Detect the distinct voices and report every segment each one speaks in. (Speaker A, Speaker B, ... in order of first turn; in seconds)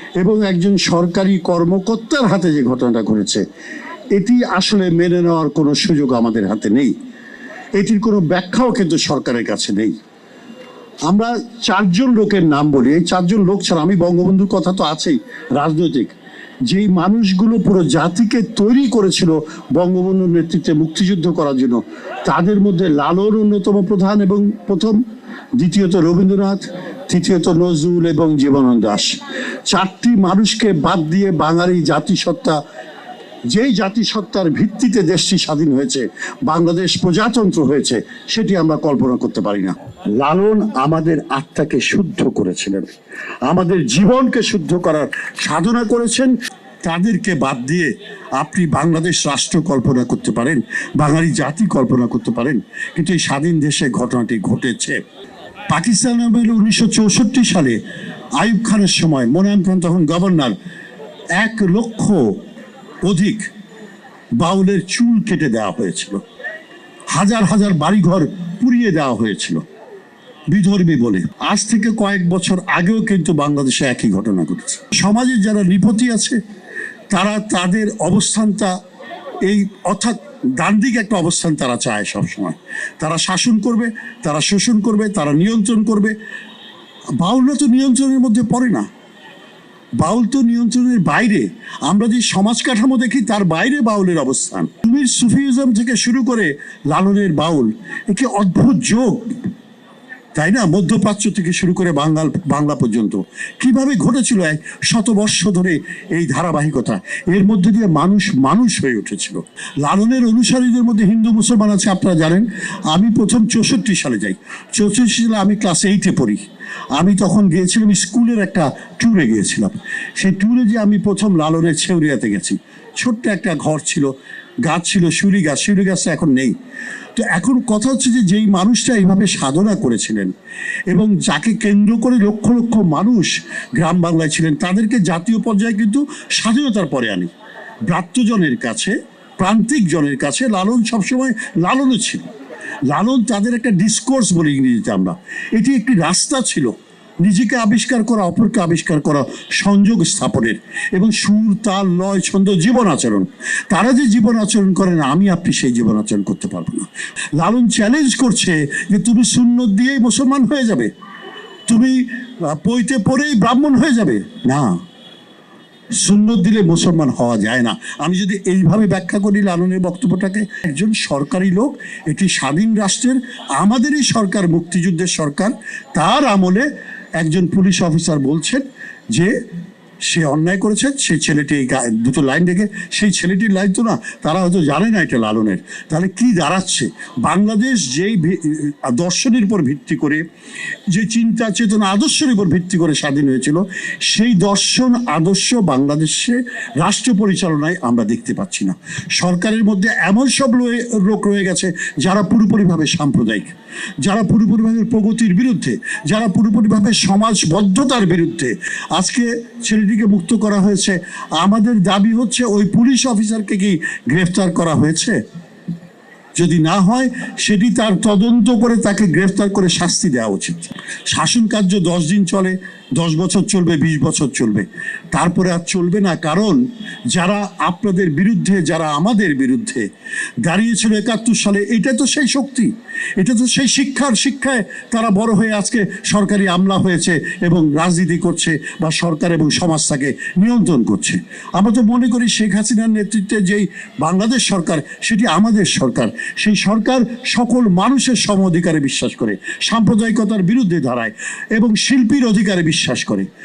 Speaker A: 0.2-3.4, 4.1-6.9, 7.8-9.9, 11.1-16.1, 16.7-25.0, 25.6-32.6, 33.5-42.9, 43.5-46.3, 46.8-55.0, 55.7-57.8, 58.4-60.5, 61.4-62.4, 63.0-63.5, 64.4-66.2, 67.1-69.6, 70.5-76.4, 77.1-78.8, 79.4-86.2, 87.2-88.9, 90.0-99.4, 100.3-116.4, 116.9-124.1, 124.7-126.5, 127.2-130.3, 130.9-137.3, 137.9-142.3, 142.9-160.9, 161.7-164.8, 166.0-179.4, 180.1-190.2, 190.9-215.2, 216.4-229.9, 230.4-253.3